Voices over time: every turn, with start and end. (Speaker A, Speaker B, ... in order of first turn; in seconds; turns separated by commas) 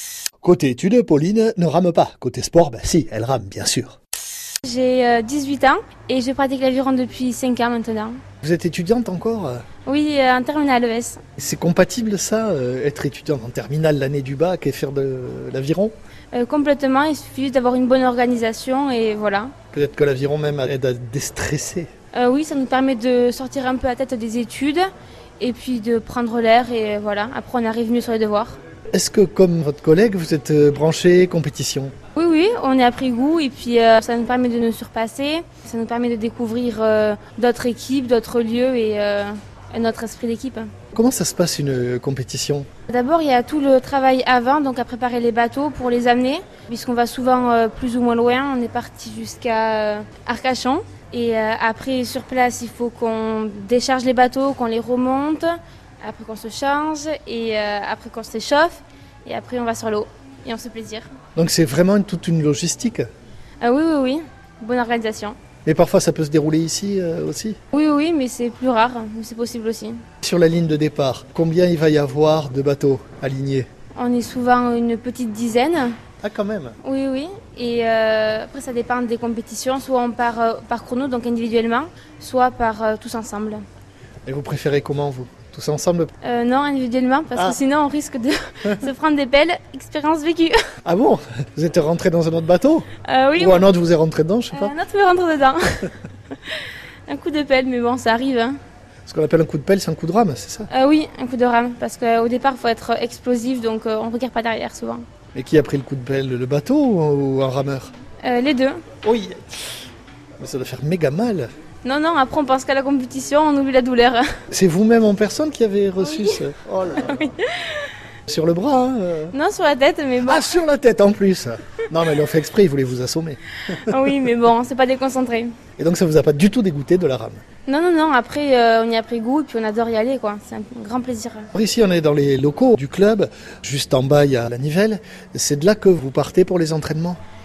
Speaker A: 0.4-4.0, Speaker B: 4.6-8.2, Speaker A: 8.4-9.6, Speaker B: 9.8-11.2, Speaker A: 11.4-15.9, Speaker B: 16.3-19.5, Speaker A: 19.7-21.9, Speaker B: 22.1-24.9, Speaker B: 25.4-28.6, Speaker A: 28.9-31.9, Speaker B: 32.1-40.7, Speaker A: 40.9-42.7, Speaker B: 42.9-61.1, Speaker A: 61.4-63.1, Speaker B: 63.6-65.3, Speaker A: 65.6-67.6, Speaker B: 67.7-70.0, Speaker A: 70.2-73.7, Speaker B: 74.0-76.0, Speaker A: 76.2-76.8, Speaker B: 76.8-83.6, Speaker A: 84.2-86.1, Speaker B: 86.2-90.5, Speaker A: 90.8-92.9, Speaker B: 93.0-93.6, Speaker A: 93.4-94.7, Speaker B: 94.5-98.6, Speaker A: 99.1-100.7, Speaker B: 100.7-105.0, Speaker A: 105.3-107.9, Speaker B: 108.2-108.8, Speaker A: 109.0-109.6, Speaker A: 110.4-111.5, Speaker B: 111.8-114.4, Speaker A: 114.5-117.2, Speaker B: 116.0-116.4, Speaker B: 117.0-117.9, Speaker A: 118.3-119.3, Speaker B: 119.3-120.5, Speaker A: 120.2-124.0, Speaker B: 123.7-125.5, Speaker A: 125.8-127.4, Speaker B: 127.7-131.5, Speaker A: 131.5-137.2